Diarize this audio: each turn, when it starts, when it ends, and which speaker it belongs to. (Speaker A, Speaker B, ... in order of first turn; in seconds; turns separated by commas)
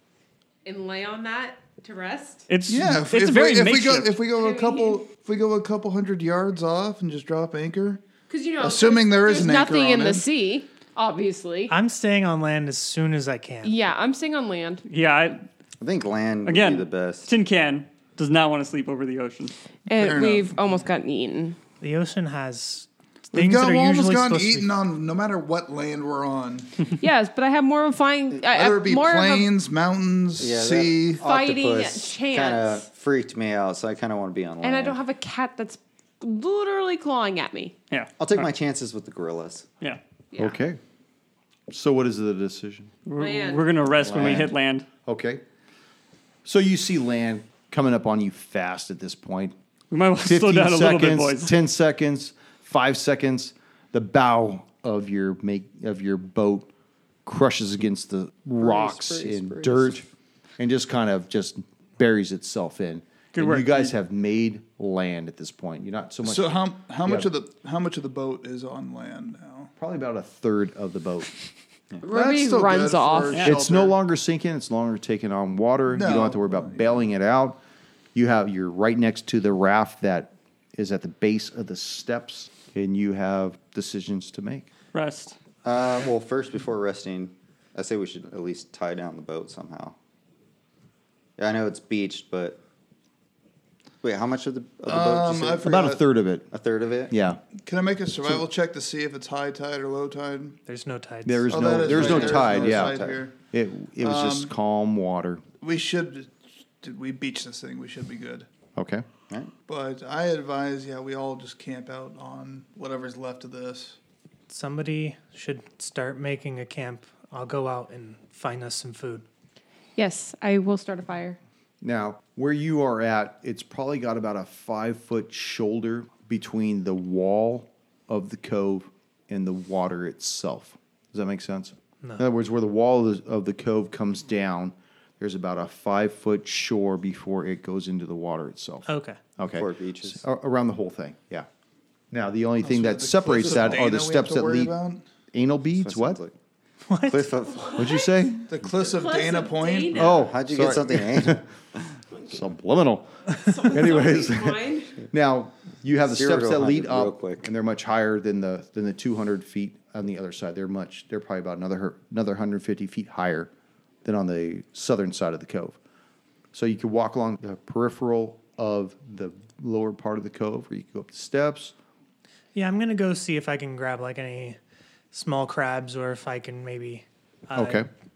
Speaker A: 0.7-2.5, Speaker B: 2.5-4.2, Speaker C: 2.7-8.0, Speaker A: 4.3-5.0, Speaker A: 8.3-11.7, Speaker C: 8.6-10.2, Speaker D: 11.7-13.8, Speaker A: 13.6-14.8, Speaker B: 14.9-15.4, Speaker E: 15.8-17.3, Speaker B: 16.4-19.6, Speaker A: 19.9-21.6, Speaker C: 19.9-20.6, Speaker D: 21.8-24.7, Speaker C: 23.3-26.7, Speaker A: 27.0-29.5, Speaker C: 28.5-31.2, Speaker E: 30.4-35.0, Speaker A: 31.2-32.9, Speaker A: 34.6-37.8, Speaker B: 37.9-38.5, Speaker E: 38.2-39.7, Speaker A: 40.3-40.6, Speaker F: 40.4-40.8, Speaker F: 41.7-42.9, Speaker B: 43.1-44.9, Speaker A: 43.2-43.7, Speaker F: 44.0-45.4, Speaker F: 46.5-49.5, Speaker B: 49.9-51.5, Speaker F: 50.2-56.7, Speaker F: 57.2-60.1, Speaker E: 58.6-60.1, Speaker F: 60.6-67.3, Speaker B: 63.3-63.9, Speaker C: 66.2-69.7, Speaker F: 69.8-71.4, Speaker A: 72.0-73.5, Speaker C: 72.1-74.0, Speaker F: 73.4-77.6, Speaker C: 75.9-77.0, Speaker F: 78.2-84.7, Speaker B: 84.9-85.4, Speaker E: 85.6-90.0, Speaker E: 91.4-92.6, Speaker E: 94.0-95.9, Speaker C: 94.8-96.0, Speaker F: 95.6-96.5, Speaker E: 96.5-97.1, Speaker F: 97.1-97.4, Speaker C: 97.6-100.6, Speaker D: 100.7-101.7, Speaker F: 101.2-105.4, Speaker C: 101.5-103.3, Speaker E: 101.8-103.2, Speaker C: 104.0-104.5, Speaker C: 105.6-108.5, Speaker F: 108.8-109.0, Speaker C: 109.7-114.0, Speaker D: 114.5-119.2, Speaker A: 120.0-121.4, Speaker F: 121.8-141.5, Speaker D: 138.9-139.2, Speaker E: 139.5-140.2, Speaker F: 142.1-144.8, Speaker C: 142.6-145.0, Speaker F: 145.3-146.2, Speaker E: 145.8-146.3, Speaker D: 146.9-147.3, Speaker E: 147.1-148.0, Speaker A: 147.6-148.2, Speaker F: 147.8-148.4, Speaker C: 148.5-150.1, Speaker A: 148.8-150.1, Speaker F: 149.9-151.5, Speaker E: 150.0-151.8, Speaker F: 152.2-163.5, Speaker A: 153.4-155.0, Speaker E: 156.1-157.5, Speaker F: 164.0-165.8, Speaker F: 166.5-171.7, Speaker D: 172.5-174.6, Speaker D: 175.1-177.9, Speaker F: 177.5-177.9